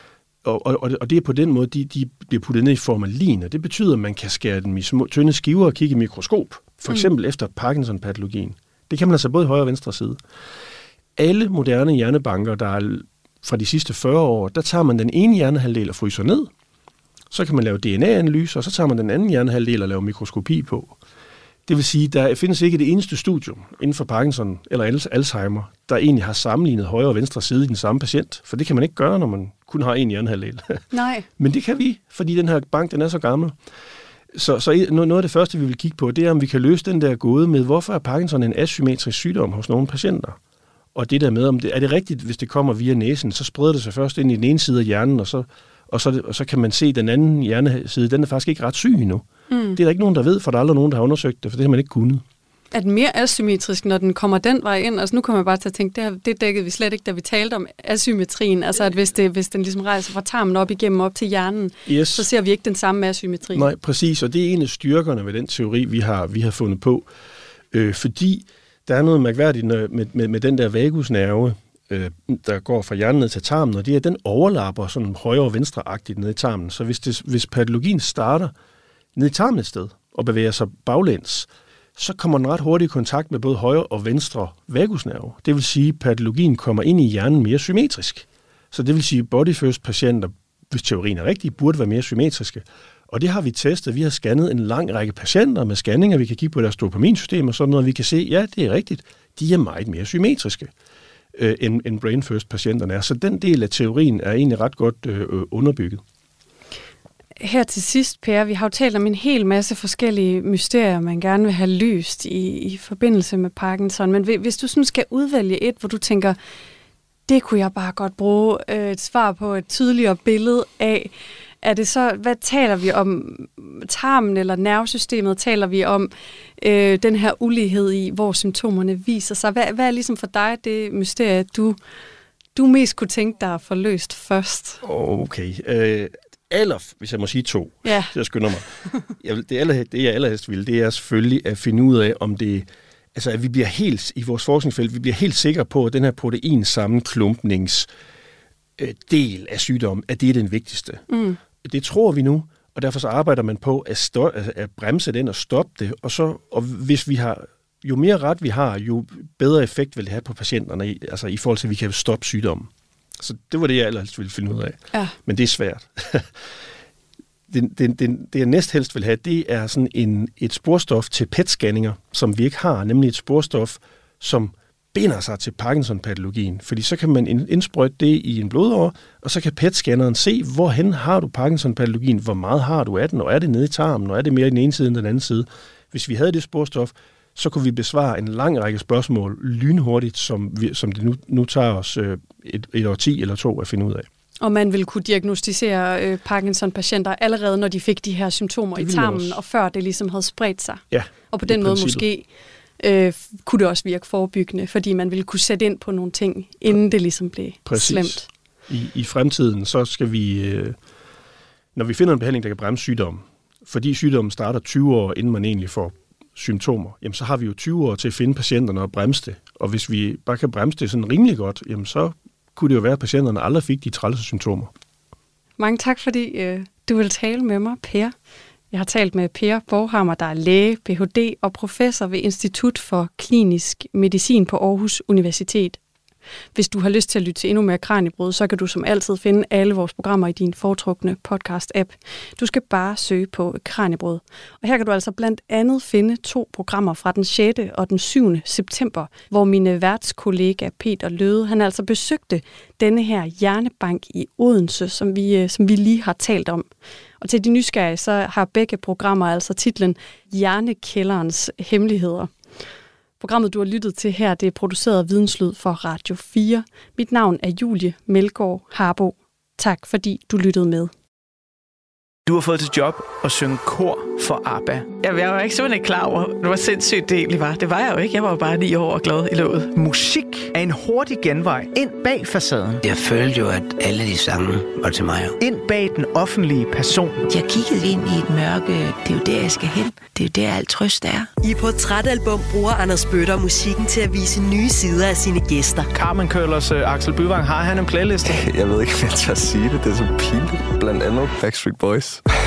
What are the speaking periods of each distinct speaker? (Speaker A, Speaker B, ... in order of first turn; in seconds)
Speaker A: 0.4-10.2, 11.2-16.5, 17.3-21.0, 21.7-30.8, 31.4-33.5, 34.3-40.4, 40.9-52.2, 61.9-62.3, 63.5-67.1, 67.7-78.5, 79.2-100.7, 101.3-106.0, 134.8-147.9, 148.8-151.1, 151.6-166.3, 167.5-194.1, 198.8-199.4, 200.9-202.1, 207.7-210.8, 211.8-224.7
Speaker B: 30.9-31.3, 49.5-49.8, 52.7-63.7, 107.4-116.4, 117.3-121.1, 121.6-131.8, 132.6-134.8, 137.8-138.1, 151.1-151.4, 194.4-202.3, 202.8-208.3, 225.6-228.1, 228.7-235.8, 236.6-256.7, 257.2-262.3, 263.2-270.9
Speaker C: 272.3-274.9, 279.8-282.8, 285.4-287.2, 295.9-298.4
Speaker D: 274.9-279.7
Speaker E: 282.8-285.4
Speaker F: 287.2-291.3
Speaker G: 291.4-295.9
Speaker H: 298.2-302.2